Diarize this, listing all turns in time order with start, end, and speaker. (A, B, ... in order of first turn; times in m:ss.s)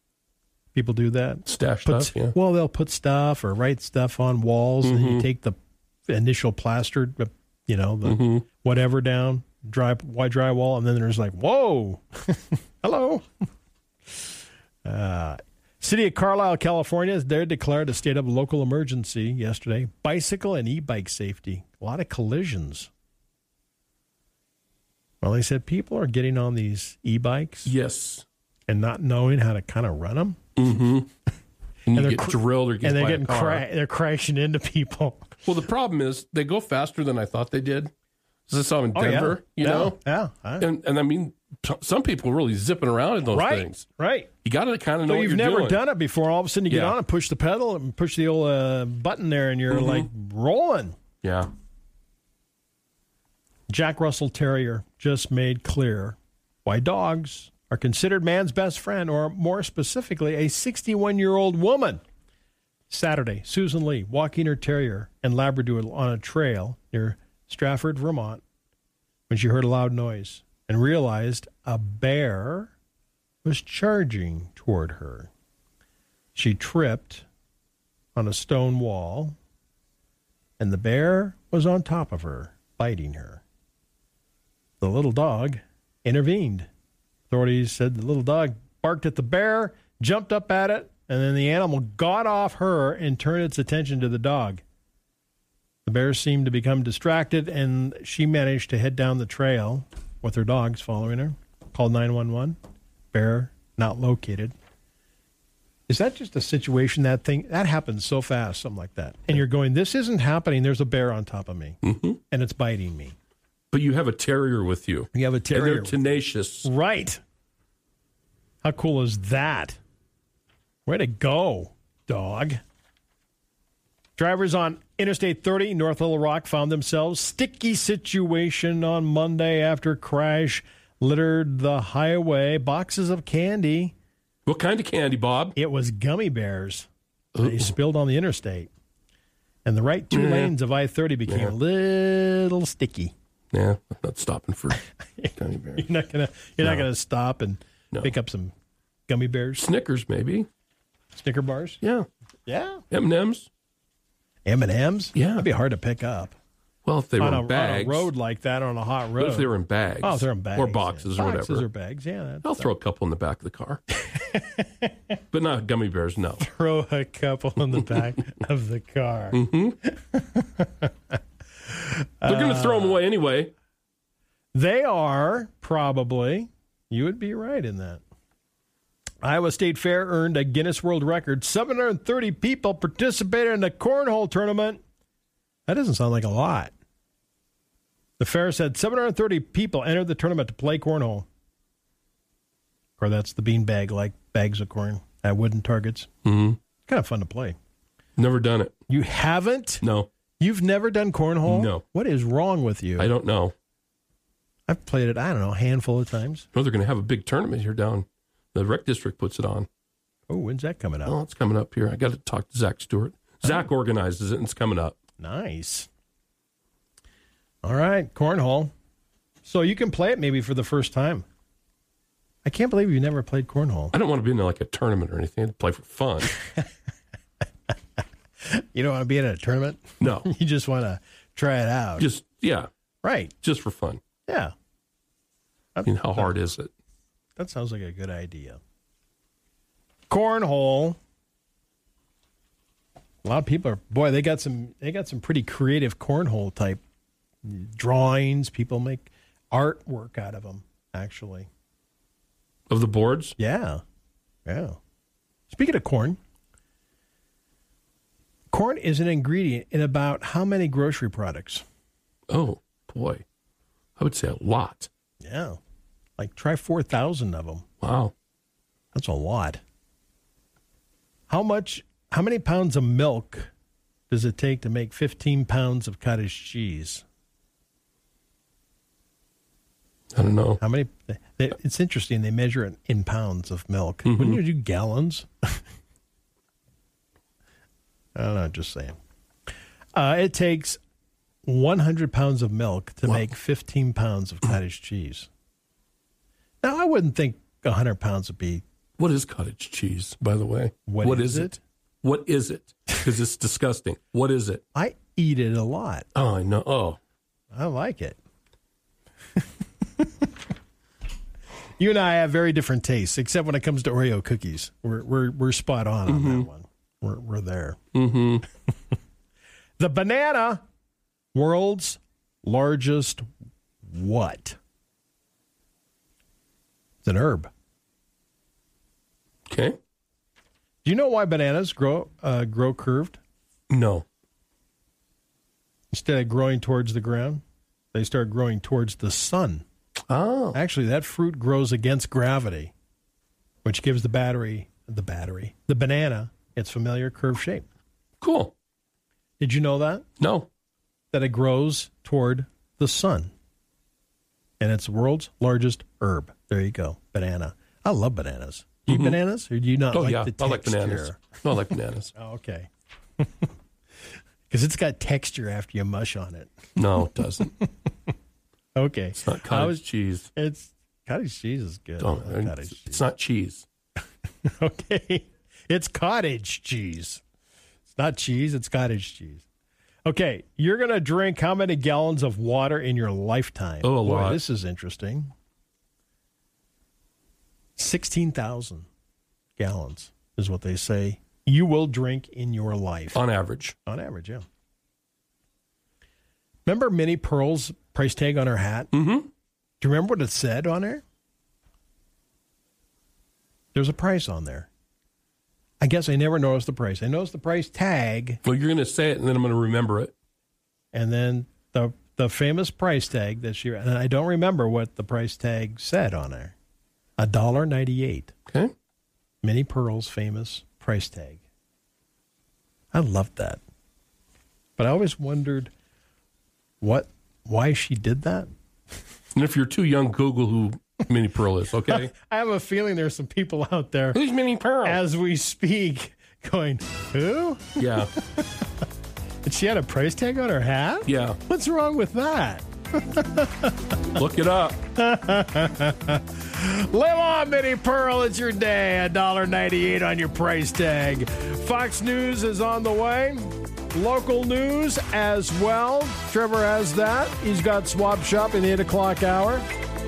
0:00.7-0:05.6 A
0:01.5-0:02.4 B
0:04.8-0:05.3 B
0:06.1-0:13.3 A
0:08.0-0:08.4 B
0:14.8-0:22.9 A
0:25.2-0:27.7 A
0:27.7-0:28.3 B
0:28.7-0:30.4 A
0:30.6-0:31.1 B
0:31.9-0:33.6 B
0:32.0-0:35.4 A
0:35.4-0:37.9 B
0:38.5-0:40.0 B
0:39.0-0:40.7 A
0:40.6-0:43.8 B
0:43.3-0:44.3 A
0:44.4-0:45.8 B
0:45.1-0:51.0 A
0:46.7-0:47.0 B
0:49.7-0:50.1 B
0:51.2-0:51.5 B
0:53.7-1:02.0 A
1:02.9-1:08.4 A
1:09.3-1:12.7 A
1:13.4-1:15.3 A
1:16.4-1:17.3 A
1:18.2-1:19.4 A
1:20.6-1:23.4 A
1:24.8-1:26.7 A
1:27.3-1:34.6 A
1:35.8-1:42.6 A
1:43.1-1:44.5 A
1:45.9-1:51.8 A
1:51.8-1:52.2 B
1:52.3-1:53.2 A
1:53.7-1:56.7 B
1:55.1-1:56.0 A
1:56.6-1:57.2 A
1:58.6-1:59.8 A
2:00.9-2:02.6 A
2:04.2-2:14.0 A
2:14.5-2:15.6 B
2:15.6-2:16.9 A
2:17.4-2:17.7 B
2:17.4-2:18.7 A
2:19.6-2:23.1 A
2:20.1-2:20.5 B
2:21.3-2:21.5 B
2:23.5-2:24.8 B
2:25.2-2:28.5 A
2:25.4-2:25.8 B
2:29.1-2:29.7 A
2:29.6-2:30.5 B
2:31.1-2:31.8 A
2:31.8-2:32.1 B
2:32.5-2:32.8 A
2:32.9-2:33.5 B
2:34.5-2:36.4 A
2:35.2-2:35.4 B
2:36.8-2:38.1 B
2:37.2-2:39.5 A
2:39.2-2:41.7 B
2:40.0-2:42.7 A
2:42.4-2:43.8 B
2:44.0-2:45.0 A
2:45.3-2:46.4 B
2:46.4-2:53.0 A
2:49.3-2:49.8 B
2:52.2-2:53.5 B
2:54.5-2:58.0 A
2:59.2-3:04.8 A
3:05.7-3:06.7 A
3:08.2-3:11.3 A
3:13.0-3:16.1 A
3:16.2-3:16.6 B
3:16.9-3:17.6 A
3:18.2-3:18.8 B
3:18.9-3:19.8 A
3:19.8-3:20.1 B
3:20.4-3:23.1 A
3:21.5-3:21.8 B
3:23.0-3:23.5 B
3:24.7-3:26.5 A
3:26.5-3:29.7 B
3:30.3-3:31.2 A
3:31.0-3:35.0 B
3:35.2-3:35.9 A
3:37.6-3:38.7 A
3:39.4-3:41.2 A
3:42.4-3:43.9 A
3:43.9-3:46.4 B
3:48.4-3:52.1 A
3:50.0-3:50.3 B
3:52.0-3:52.7 B
3:53.0-3:53.3 A
3:53.4-3:54.0 B
3:54.3-3:54.5 A
3:55.8-3:56.3 A
3:55.8-3:56.7 B
3:57.4-3:58.6 A
4:00.1-4:01.0 A
4:03.2-4:06.8 A
4:07.4-4:11.5 A
4:12.7-4:13.4 B
4:13.4-4:13.8 A
4:14.5-4:14.8 A
4:15.5-4:16.2 A
4:18.5-4:21.6 A
4:22.3-4:23.2 B
4:24.0-4:24.9 B
4:25.2-4:25.6 A
4:26.2-4:27.6 A
4:27.8-4:28.1 B
4:28.9-4:29.6 A
4:31.3-4:33.5 A
4:34.1-4:37.0 A
4:40.1-4:40.6 B
4:40.6-4:45.6 A
4:44.0-4:44.4 B
4:48.2-4:49.0 A
4:50.0-4:50.8 A
4:51.4-4:55.3 A
4:56.6-4:58.6 A
4:59.0-5:04.6 B
5:00.9-5:01.6 A
5:04.7-5:06.1 A
5:06.2-5:07.0 B
5:07.5-5:08.2 A
5:10.0-5:10.3 A
5:11.8-5:17.8 A
5:16.1-5:16.5 B
5:17.9-5:18.4 B
5:19.8-5:20.6 A
5:21.3-5:23.2 A
5:23.9-5:24.6 A
5:27.0-5:27.5 A
5:29.5-5:29.8 B
5:30.8-5:33.2 A
5:33.7-5:34.0 B
5:35.9-5:37.4 A
5:37.9-5:39.6 A
5:40.1-5:40.6 B
5:40.5-5:42.7 A
5:43.6-5:47.6 A
5:48.2-5:48.5 B
5:49.4-5:50.0 A
5:50.2-5:50.5 B
5:51.1-5:53.3 A
5:54.6-6:03.5 A
5:58.9-5:59.2 B
5:59.9-6:02.1 B
6:04.5-6:07.7 A
6:06.8-6:07.5 B
6:08.8-6:09.8 A
6:09.2-6:10.3 B
6:10.3-6:13.1 A
6:12.0-6:13.7 B
6:14.4-6:17.2 A
6:17.9-6:19.4 A
6:20.1-6:25.3 A
6:23.8-6:24.4 B
6:27.8-6:28.9 A
6:29.6-6:33.2 A
6:33.1-6:33.8 B
6:33.8-6:34.4 A
6:36.7-6:38.9 A
6:38.9-6:39.3 B
6:39.8-6:41.0 A
6:43.7-6:44.7 A
6:45.8-6:48.4 A
6:48.4-6:50.1 B
6:50.9-6:56.6 A
6:57.2-6:58.3 A
6:58.5-6:58.7 B
6:59.4-7:01.4 A
7:02.9-7:03.6 A
7:04.8-7:05.7 A
7:06.8-7:08.5 A
7:09.4-7:12.1 B
7:11.8-7:14.2 A
7:14.1-7:15.0 B
7:14.8-7:18.7 A
7:17.8-7:18.1 B
7:19.4-7:23.9 A
7:21.1-7:21.4 B
7:24.1-7:24.8 B
7:25.0-7:39.6 A